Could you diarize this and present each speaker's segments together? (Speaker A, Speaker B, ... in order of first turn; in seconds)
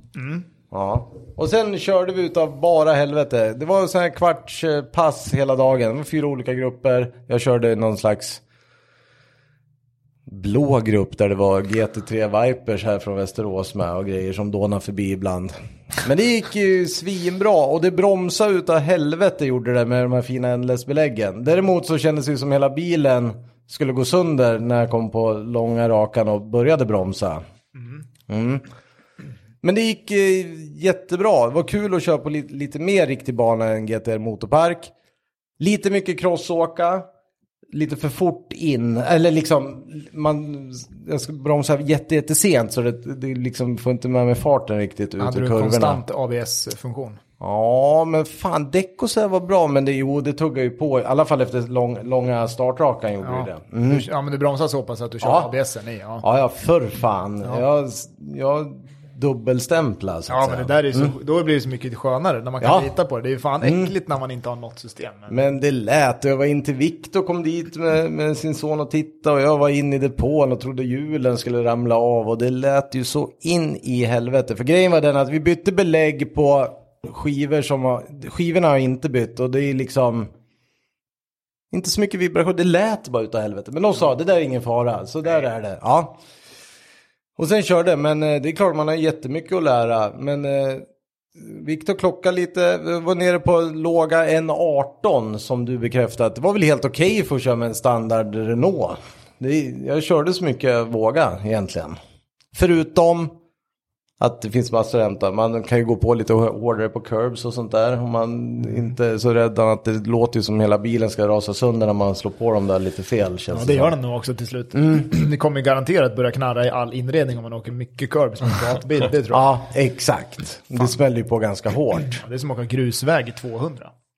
Speaker A: 0.1-0.5, 27.8-28.0, 45.2-47.2, 53.2-56.2, 60.3-65.4, 113.5-119.5, 122.2-123.9
Speaker B: 0.7-8.4, 10.3-27.4, 28.3-28.6, 29.6-34.9, 35.6-37.1, 37.7-46.0, 47.4-54.1, 55.2-55.5, 56.2-61.1, 62.6-62.9, 63.6-63.9, 65.3-80.3, 81.7-86.2, 87.4-102.0, 102.5-103.3, 104.2-113.9, 119.3-122.2